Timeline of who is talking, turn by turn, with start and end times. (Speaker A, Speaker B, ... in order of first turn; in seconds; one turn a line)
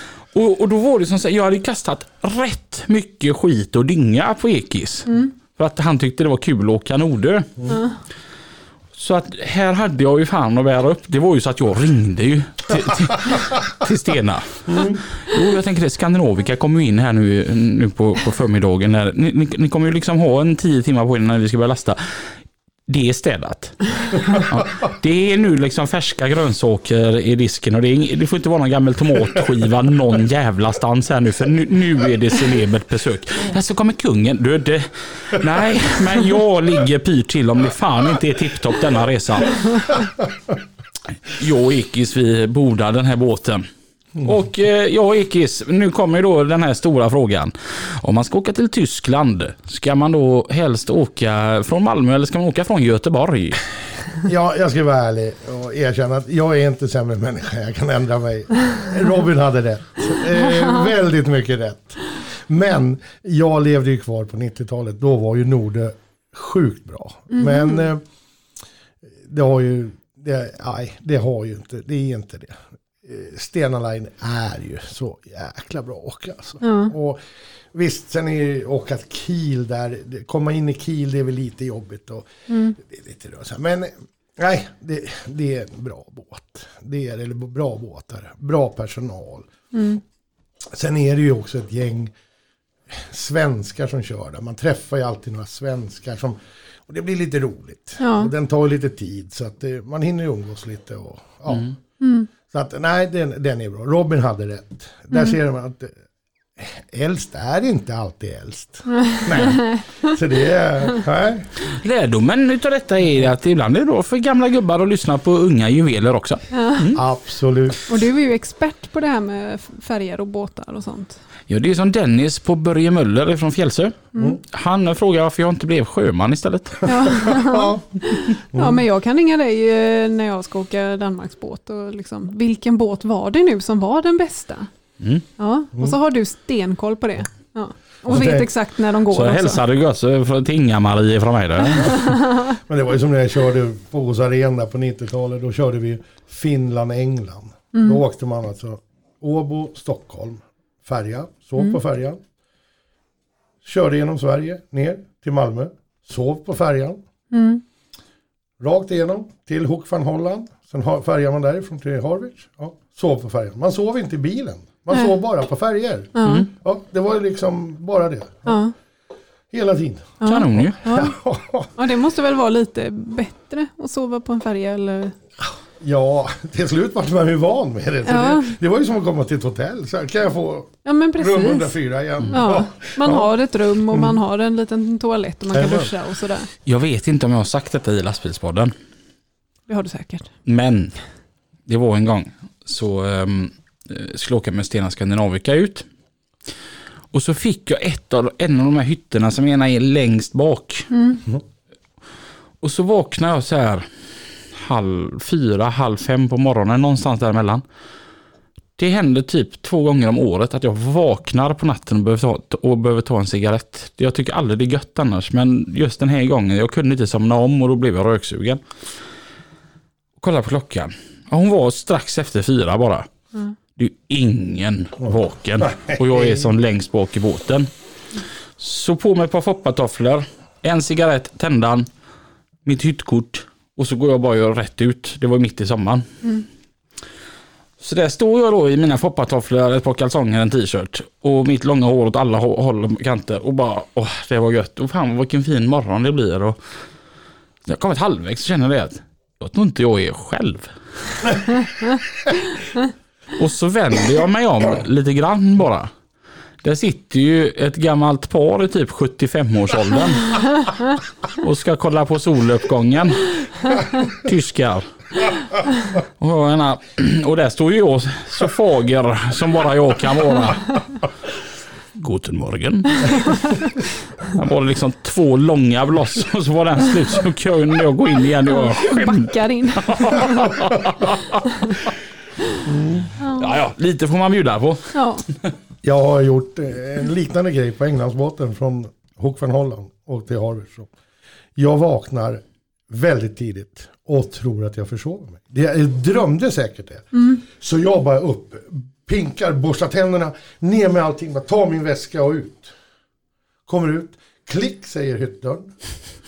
Speaker A: 0.3-7.5
Speaker B: 7.7-8.0
Speaker A: 8.9-22.3
Speaker C: 14.7-15.0
Speaker A: 22.9-40.0
Speaker A: 41.2-43.6
Speaker A: 44.2-53.6
Speaker C: 54.2-68.0
Speaker B: 67.3-67.8
Speaker C: 69.2-89.5
Speaker B: 76.6-76.9
Speaker B: 82.5-82.8
Speaker B: 89.7-90.0
Speaker C: 90.7-92.1
Speaker C: 92.9-101.7
Speaker B: 98.0-98.3
Speaker B: 102.0-102.3
Speaker C: 102.5-106.0
Speaker B: 105.1-105.4
Speaker C: 106.6-111.5
Speaker B: 108.9-110.1
Speaker A: 111.7-117.0
Speaker B: 116.5-116.8
Speaker C: 116.9-117.8
Speaker B: 117.9-121.2
Speaker A: 121.5-126.8
Speaker B: 126.8-134.7
Speaker C: 127.3-128.8
Speaker A: 135.0-135.2
Speaker B: 135.4-139.6
Speaker C: 138.1-138.5
Speaker A: 139.1-142.1
Speaker C: 142.6-152.2
Speaker B: 147.7-148.0
Speaker C: 153.6-157.0
Speaker B: 157.3-157.6
Speaker C: 158.6-168.6
Speaker B: 166.1-166.4
Speaker B: 168.5-168.7
Speaker C: 169.5-171.7
Speaker B: 170.2-171.1
Speaker A: 170.2-170.8
Speaker B: 171.8-175.2
Speaker C: 175.4-183.3
Speaker B: 178.1-178.5
Speaker B: 180.8-181.8
Speaker B: 182.3-186.5
Speaker C: 185.5-185.9
Speaker A: 186.7-188.7
Speaker B: 189.7-190.3
Speaker A: 190.4-190.9
Speaker A: 191.7-195.8
Speaker A: 197.1-200.9
Speaker B: 200.9-201.2
Speaker A: 202.6-207.6
Speaker A: 208.8-218.6
Speaker A: 220.2-223.1
Speaker A: 223.8-227.7
Speaker C: 225.0-226.5
Speaker A: 228.6-231.9
Speaker A: 232.6-236.1
Speaker A: 237.8-246.6
Speaker A: 247.6-251.3
Speaker A: 253.3-255.9
Speaker A: 256.6-260.4
Speaker A: 261.3-265.3
Speaker A: 266.2-271.0
Speaker A: 271.9-273.6
Speaker A: 274.2-281.4
Speaker B: 278.5-280.5
Speaker C: 282.6-283.1
Speaker B: 283.2-283.5
Speaker A: 283.4-285.0
Speaker B: 284.9-285.2
Speaker C: 285.8-290.9
Speaker C: 291.6-302.7
Speaker B: 297.1-297.4
Speaker C: 303.7-305.7